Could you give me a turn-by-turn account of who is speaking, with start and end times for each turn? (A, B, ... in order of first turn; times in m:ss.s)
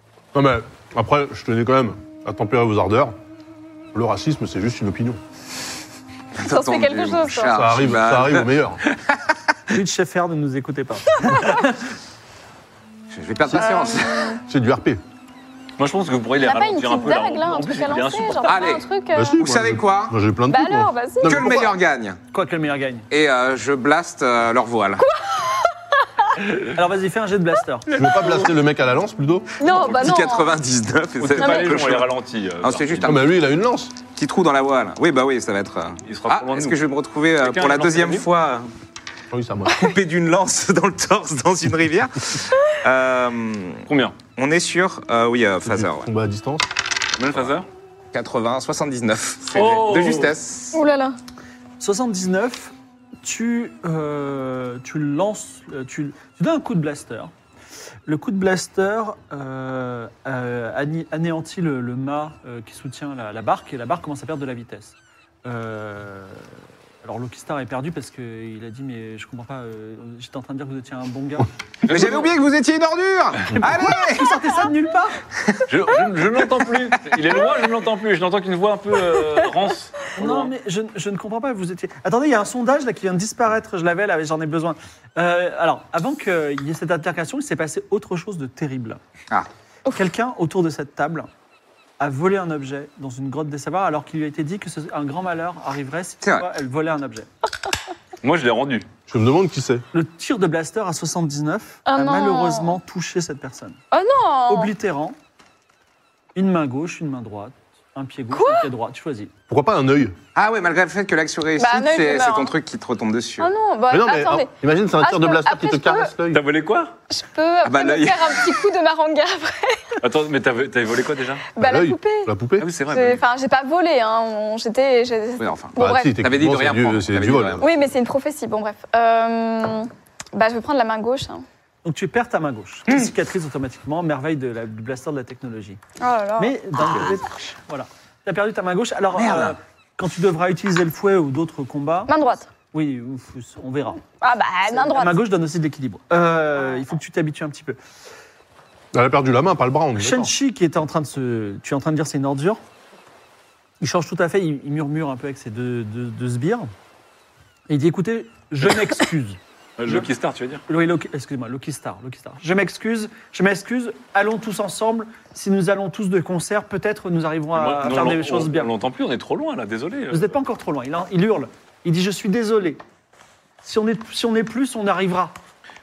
0:00.3-0:03.1 A
0:03.9-0:05.2 A
0:06.4-0:09.3 B
0:06.4-0:07.6 C
0:07.5-0:08.8 A
0:09.7-0:11.8 D
0:11.3-0:11.6 C
0:13.1-0:14.3 B
0:13.6-0:14.4 C
0:14.5-0:15.0 A
0:15.8-0:18.6 E
0:16.4-0:19.4 C
0:18.5-0:18.9 B
0:19.1-0:21.7 A
0:19.4-0:20.2 B
0:20.5-0:21.6 C
0:21.2-0:22.2 B
0:22.3-0:23.1 D
0:23.1-0:25.0 B
0:25.0-0:26.0 C
0:26.7-0:27.9 D
0:27.9-0:29.5 A
0:29.6-0:30.5 C
0:29.6-0:32.1 B
0:31.2-0:33.2 E
0:31.4-0:31.7 C
0:32.6-0:33.3 B
0:33.0-0:34.0 A
0:34.2-0:38.7 B
0:36.1-0:36.8 E
0:37.4-0:38.3 E
0:39.3-0:39.8 A
0:39.7-0:43.8 B
0:43.9-0:44.2 E
0:44.4-0:46.1 B
0:45.6-0:46.7 A
0:47.2-0:47.7 E
0:48.1-0:50.8 B
0:49.5-0:50.4 E
0:50.7-0:51.2 C
0:51.8-0:57.3 D
0:58.1-1:11.5 D
1:11.8-1:12.4 E
1:11.9-1:14.3 B
1:13.6-1:15.2 D
1:15.7-1:20.5 E
1:20.2-1:29.0 D
1:29.9-1:31.3 D
1:32.0-1:37.3 D
1:36.2-1:36.5 B
1:38.2-1:38.9 E
1:39.1-1:39.8 A
1:39.9-1:43.8 D
1:41.9-1:42.8 C
1:43.9-1:44.7 C
1:44.5-1:45.2 D
1:46.4-1:49.3 D
1:48.3-1:48.7 C
1:49.5-1:50.2 A
1:50.4-1:53.5 B
1:51.6-1:52.5 C
1:53.4-1:56.1 C
1:53.9-1:56.4 A
1:56.3-1:56.9 E
1:57.1-2:00.0 C
1:57.6-1:58.6 B
2:00.0-2:01.5 E
2:01.6-2:02.3 C
2:01.6-2:02.7 A
2:02.6-2:03.2 E
2:02.9-2:06.2 C
2:05.4-2:07.8 B
2:05.8-2:07.6 A
2:07.6-2:11.4 C
2:11.8-2:15.8 D
2:16.0-2:17.0 C
2:16.4-2:22.1 D
2:19.1-2:19.6 B
2:22.1-2:22.5 C
2:22.7-2:24.0 D
2:24.2-2:25.2 C
2:24.7-2:27.8 D
2:28.9-2:30.3 A
2:30.0-2:32.6 D
2:33.8-2:36.7 D
2:37.7-2:40.1 D
2:39.8-2:40.6 E
2:40.7-2:48.7 D
2:47.6-2:50.4 E
2:50.1-2:52.8 D
2:53.6-2:55.3 D